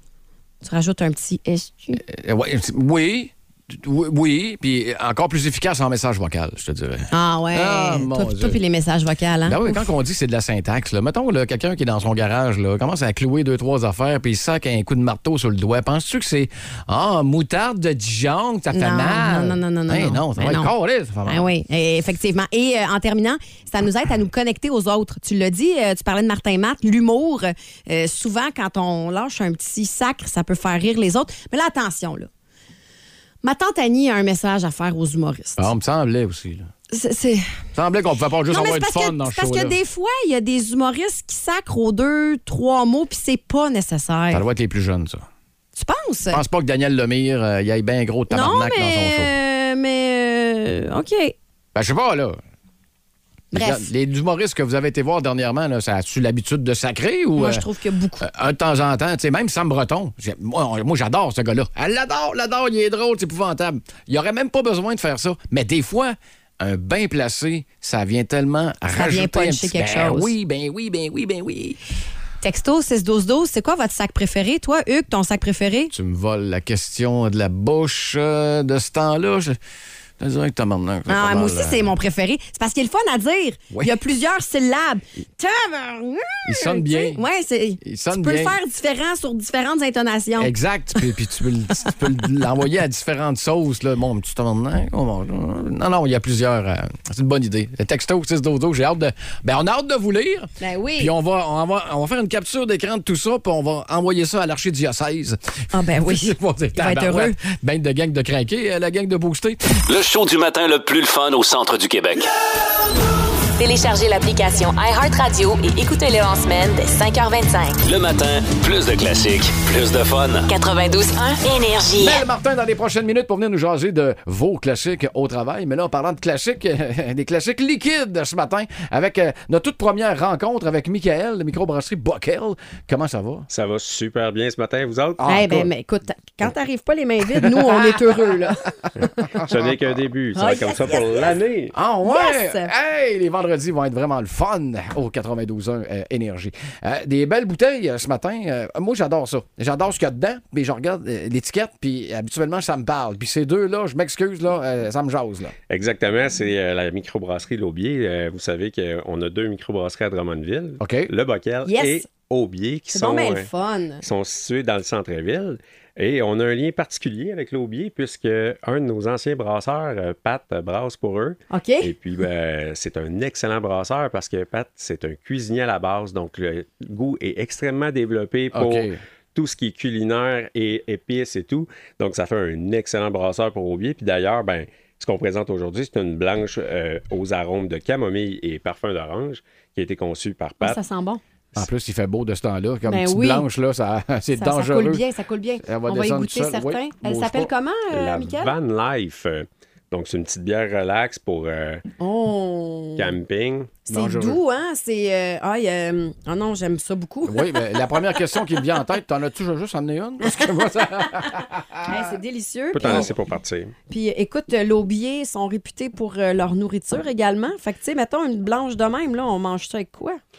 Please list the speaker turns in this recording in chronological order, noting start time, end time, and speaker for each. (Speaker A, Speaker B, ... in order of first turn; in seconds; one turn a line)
Speaker A: 0.6-2.0
Speaker B: 2.0-8.6
Speaker A: 7.1-9.8
Speaker B: 9.4-21.4
Speaker A: 18.7-20.7
Speaker A: 21.2-32.3
Speaker A: 33.4-35.7
Speaker B: 35.6-36.7
Speaker A: 36.9-37.6
Speaker B: 37.7-39.8
Speaker A: 38.5-44.4
Speaker B: 44.3-45.2
Speaker A: 45.8-46.4
Speaker B: 46.3-49.3
Speaker A: 48.3-51.3
Speaker B: 51.7-52.4
Speaker A: 53.5-53.9
Speaker B: 53.5-57.6
Speaker A: 57.4-58.2
Speaker B: 58.2-71.8
Speaker A: 68.9-70.3
Speaker A: 72.4-75.9
Speaker B: 75.9-79.6
Speaker B: 80.2-81.9
Speaker A: 81.1-90.5
Speaker B: 86.4-87.2
Speaker B: 87.8-88.6
Speaker B: 90.4-109.8
Speaker A: 100.6-101.1
Speaker A: 105.7-107.4
Speaker C: 109.8-112.3
Speaker D: 113.6-117.8
Speaker C: 117.8-120.5
Speaker D: 120.5-122.2
Speaker B: 121.9-133.5
Speaker E: 133.5-135.3
Speaker B: 135.2-135.7
Speaker A: 135.2-139.3
Speaker B: 137.3-138.0
Speaker B: 139.3-139.9
Speaker E: 139.4-141.7
Speaker A: 140.3-141.2
Speaker B: 141.7-155.5
Speaker A: 142.0-142.7
Speaker E: 155.7-163.5
Speaker B: 160.8-161.1
Speaker A: 161.6-162.0
Speaker A: 162.9-164.0
Speaker E: 164.0-190.8
Speaker A: 171.5-171.9
Speaker B: 178.5-179.0
Speaker A: 190.6-191.2
Speaker B: 191.6-195.0
Speaker A: 192.9-193.4
Speaker A: 194.3-198.5
Speaker B: 195.6-197.5
Speaker E: 197.9-201.8
Speaker A: 202.0-203.1
Speaker E: 203.0-203.8
Speaker A: 203.8-207.8
Speaker B: 203.9-204.4
Speaker B: 207.2-212.1
Speaker A: 210.2-210.5
Speaker A: 211.1-213.1
Speaker E: 212.7-213.7
Speaker B: 212.8-213.1
Speaker A: 213.9-220.2